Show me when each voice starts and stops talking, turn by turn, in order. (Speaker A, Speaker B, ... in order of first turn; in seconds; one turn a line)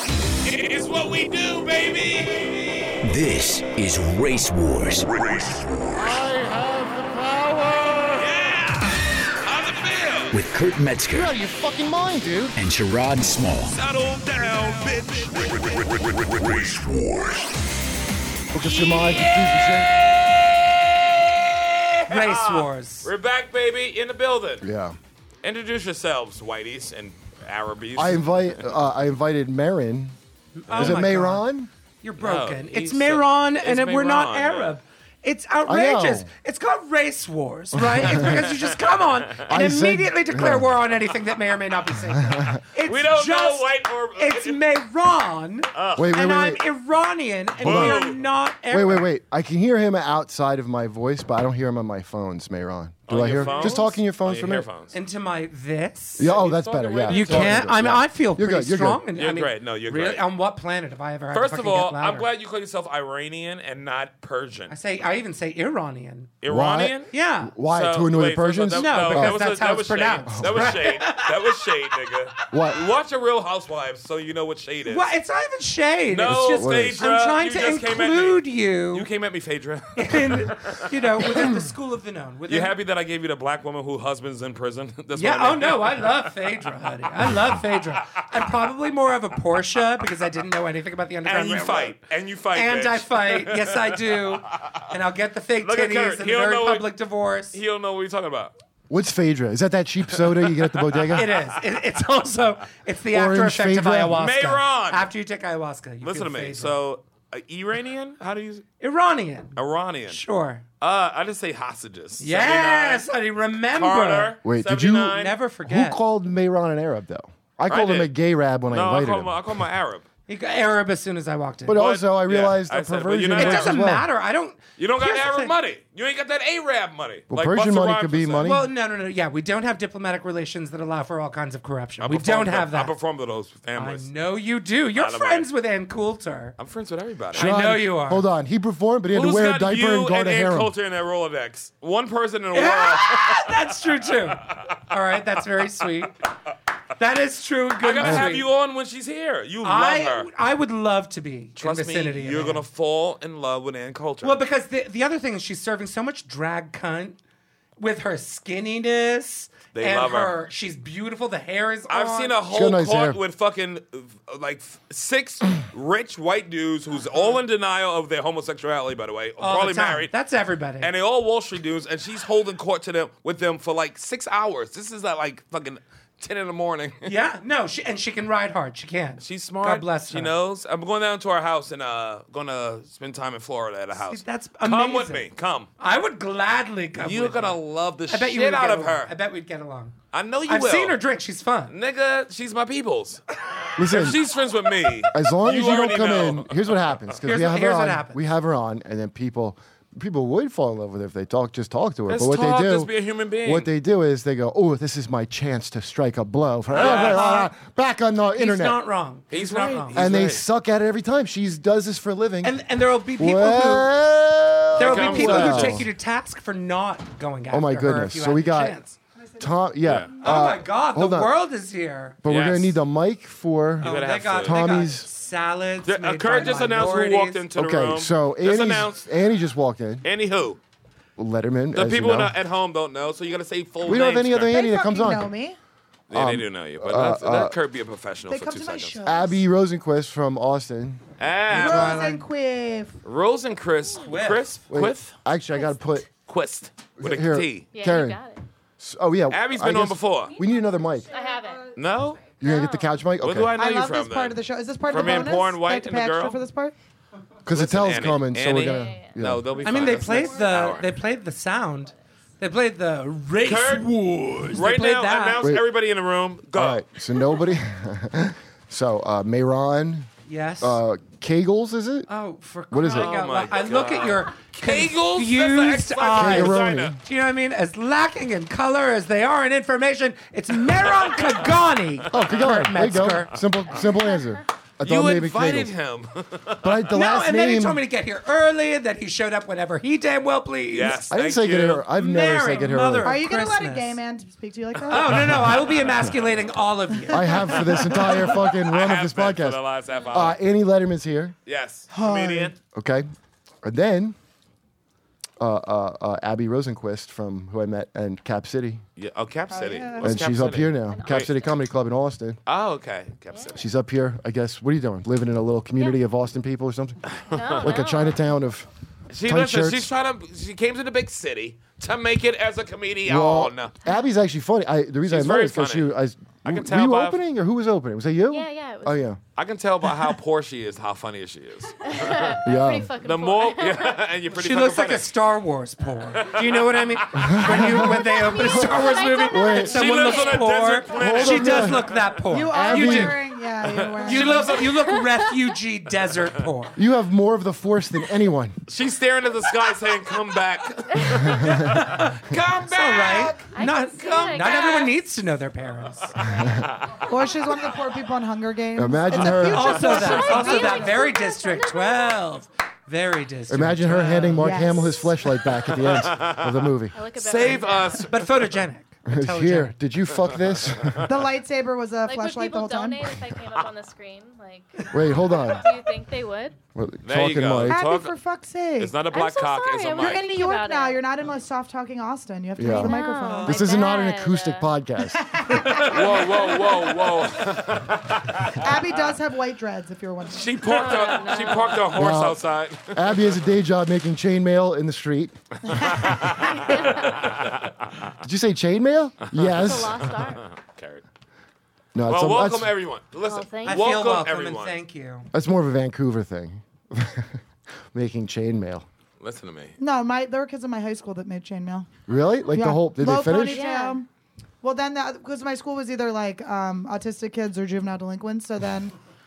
Speaker A: 0.4-3.0
Speaker B: 3.0-5.1
Speaker A: 5.2-5.9
Speaker C: 5.8-8.3
Speaker A: 8.2-10.3
Speaker B: 10.3-11.3
Speaker C: 11.1-12.5
Speaker B: 12.6-13.8
Speaker A: 13.7-17.3
Speaker C: 18.5-19.9
Speaker A: 18.6-24.6
Speaker D: 22.1-23.1
Speaker C: 24.6-25.0
Speaker A: 25.4-28.3
Speaker C: 27.9-30.1
Speaker D: 30.6-31.4
Speaker A: 30.7-31.0
Speaker C: 30.8-31.7
Speaker D: 32.0-49.1
Speaker A: 32.2-34.8
Speaker C: 35.6-36.3
Speaker C: 37.8-38.4
Speaker A: 38.2-39.0
Speaker C: 39.5-40.7
Speaker C: 42.2-42.6
Speaker A: 42.8-44.6
Speaker A: 45.7-46.1
Speaker C: 45.9-46.6
Speaker A: 47.6-48.2
Speaker C: 47.6-48.0
Speaker C: 48.7-54.7
Speaker A: 53.1-54.9
Speaker D: 53.4-53.8
Speaker D: 54.9-56.3
Speaker C: 56.2-59.0
Speaker A: 56.2-57.8
Speaker D: 57.1-62.3
Speaker A: 59.1-60.2
Speaker A: 61.3-64.7
Speaker D: 64.7-66.3
Speaker A: 66.4-67.1
Speaker C: 66.5-69.4
Speaker D: 67.1-67.5
Speaker A: 67.7-75.1
Speaker D: 68.8-71.7
Speaker C: 70.3-70.8
Speaker C: 72.5-72.8
Speaker D: 74.8-79.1
Speaker A: 76.1-81.3
Speaker C: 76.3-77.0
Speaker D: 79.9-82.7
Speaker A: 82.5-86.4
Speaker D: 85.1-91.9
Speaker A: 91.2-94.2
Speaker D: 92.5-97.6
Speaker A: 95.6-96.9
Speaker A: 97.5-98.5
Speaker C: 98.9-101.3
Speaker A: 100.9-101.4
Speaker D: 101.1-106.8
Speaker C: 103.1-104.2
Speaker A: 104.1-105.1
Speaker A: 106.0-108.7
Speaker D: 108.8-110.6
Speaker A: 109.5-110.2
Speaker A: 110.8-113.1
Speaker D: 112.2-114.3
Speaker A: 113.7-115.3
Speaker C: 114.4-119.3
Speaker D: 115.1-116.0
Speaker A: 117.7-118.1
Speaker A: 118.7-120.0
Speaker D: 120.3-121.8
Speaker C: 121.7-124.1
Speaker A: 121.7-123.8
Speaker D: 123.4-125.5
Speaker A: 124.8-128.5
Speaker C: 127.3-128.7
Speaker D: 128.4-132.9
Speaker A: 132.0-134.1
Speaker D: 133.7-136.5
Speaker A: 134.9-135.5
Speaker A: 136.6-137.5
Speaker D: 137.3-138.2
Speaker C: 137.3-140.7
Speaker A: 139.1-143.7
Speaker D: 142.5-146.1
Speaker A: 144.5-144.7
Speaker D: 147.0-148.4
Speaker A: 147.8-150.3
Speaker C: 148.0-148.3
Speaker D: 149.6-152.6
Speaker A: 151.6-154.4
Speaker D: 154.2-157.2
Speaker D: 157.8-162.4
Speaker A: 159.7-160.4
Speaker A: 161.9-170.1
Speaker C: 162.5-163.2
Speaker D: 169.4-170.9
Speaker A: 170.8-177.1
Speaker D: 177.0-180.3
Speaker A: 179.2-185.7
Speaker D: 184.0-185.2
Speaker D: 185.8-187.6
Speaker A: 187.0-189.1
Speaker D: 188.1-189.9
Speaker A: 190.1-191.0
Speaker D: 190.5-191.7
Speaker A: 191.7-193.2
Speaker C: 193.8-194.2
Speaker A: 193.8-196.7
Speaker C: 195.1-208.8
Speaker D: 197.2-198.2
Speaker A: 202.1-203.7
Speaker D: 206.7-207.5
Speaker A: 206.8-207.2
Speaker D: 208.3-210.0
Speaker A: 209.3-210.4
Speaker C: 209.9-215.9
Speaker D: 212.4-213.9
Speaker D: 214.8-219.0
Speaker A: 214.8-215.8
Speaker C: 217.5-218.8
Speaker C: 219.4-221.3
Speaker A: 219.8-220.1
Speaker D: 220.2-222.2
Speaker C: 222.2-225.1
Speaker A: 222.2-222.8
Speaker D: 223.8-227.4
Speaker A: 223.8-224.6
Speaker A: 225.8-229.1
Speaker C: 227.5-230.1
Speaker A: 230.0-230.6
Speaker C: 231.2-232.3
Speaker A: 231.7-234.5
Speaker C: 233.8-235.3
Speaker E: 234.5-235.6
Speaker A: 236.1-239.0
Speaker C: 236.1-237.5
Speaker E: 238.3-239.4
Speaker C: 239.0-241.0
Speaker A: 241.2-242.1
Speaker D: 241.5-242.2
Speaker E: 241.5-242.9
Speaker A: 243.0-245.1
Speaker D: 244.0-244.5
Speaker C: 244.7-246.1
Speaker A: 246.2-247.7
Speaker C: 247.0-248.2
Speaker F: 247.7-248.4
Speaker C: 248.8-251.1
Speaker A: 249.3-250.3
Speaker F: 251.1-251.7
Speaker A: 251.7-252.2
Speaker C: 252.4-253.6
Speaker F: 252.4-252.9
Speaker A: 253.2-256.4
Speaker E: 253.6-256.7
Speaker C: 257.4-259.5
Speaker A: 257.5-260.9
Speaker F: 258.6-259.1
Speaker D: 259.6-265.4
Speaker A: 263.4-266.8
Speaker C: 265.4-265.7
Speaker C: 266.5-270.1
Speaker D: 270.2-270.8
Speaker C: 270.6-272.1
Speaker D: 272.1-283.4
Speaker C: 272.7-273.2
Speaker A: 272.8-276.9
Speaker C: 276.1-277.0
Speaker A: 281.0-281.3
Speaker C: 282.1-285.7
Speaker A: 284.8-286.8
Speaker C: 286.6-287.8
Speaker D: 286.9-291.0
Speaker A: 290.7-291.8
Speaker C: 291.1-293.2
Speaker D: 291.9-294.0
Speaker E: 293.0-295.5
Speaker D: 294.9-298.3
Speaker C: 297.1-301.4
Speaker A: 298.4-300.4
Speaker A: 301.4-302.5
Speaker E: 301.9-302.5
Speaker C: 302.7-303.1
Speaker C: 303.6-304.1
Speaker C: 305.4-308.8
Speaker A: 309.0-311.3
Speaker E: 309.5-310.3
Speaker C: 310.0-312.4
Speaker F: 310.9-311.3
Speaker A: 312.4-313.6
Speaker C: 313.5-317.0
Speaker A: 317.1-317.8
Speaker F: 317.3-318.2
Speaker C: 317.6-318.7
Speaker A: 319.1-323.7
Speaker C: 319.2-319.9
Speaker C: 323.1-329.2
Speaker A: 325.1-327.2
Speaker F: 328.3-329.0
Speaker A: 329.4-332.4
Speaker F: 331.8-334.0
Speaker C: 332.4-332.9
Speaker A: 333.0-335.1
Speaker D: 334.3-343.2
Speaker A: 336.1-337.8
Speaker C: 337.1-338.6
Speaker F: 337.7-340.8
Speaker C: 339.2-339.8
Speaker A: 339.6-342.1
Speaker C: 340.9-343.2
Speaker E: 342.3-344.7
Speaker A: 343.6-345.0
Speaker D: 344.0-346.7
Speaker F: 344.8-345.2
Speaker C: 346.8-348.6
Speaker A: 348.7-354.9
Speaker C: 351.2-351.7
Speaker D: 351.6-356.1
Speaker F: 353.5-354.9
Speaker F: 356.3-356.6
Speaker C: 356.4-356.6
Speaker A: 356.7-357.0
Speaker E: 357.1-361.1
Speaker C: 358.7-360.3
Speaker D: 359.1-364.6
Speaker F: 359.8-362.2
Speaker C: 363.5-367.0
Speaker E: 364.4-365.1
Speaker A: 365.7-368.6
Speaker F: 366.9-368.1
Speaker D: 368.1-369.7
Speaker C: 369.1-371.1
Speaker A: 370.3-371.0
Speaker E: 371.1-373.1
Speaker F: 372.0-376.6
Speaker C: 374.9-375.6
Speaker C: 376.7-377.8
Speaker A: 377.0-378.1
Speaker E: 377.7-379.0
Speaker A: 378.8-380.2
Speaker F: 379.1-381.0
Speaker E: 380.0-383.6
Speaker C: 382.6-382.9
Speaker F: 382.7-384.7
Speaker D: 382.9-383.5
Speaker C: 383.5-385.8
Speaker E: 385.2-386.8
Speaker A: 385.5-388.6
Speaker E: 388.5-391.3
Speaker A: 390.3-393.3
Speaker F: 390.6-392.0
Speaker C: 391.9-395.4
Speaker A: 395.8-398.0
Speaker F: 396.5-397.3
Speaker C: 398.2-400.1
Speaker A: 399.3-401.0
Speaker F: 399.5-400.5
Speaker C: 401.9-402.8
Speaker A: 402.1-404.8
Speaker F: 403.3-404.0
Speaker D: 403.6-405.3
Speaker C: 405.3-407.4
Speaker C: 407.9-408.9
Speaker A: 409.2-409.7
Speaker E: 409.8-411.9
Speaker C: 412.1-413.6
Speaker E: 412.5-414.1
Speaker F: 413.5-414.0
Speaker E: 414.6-418.9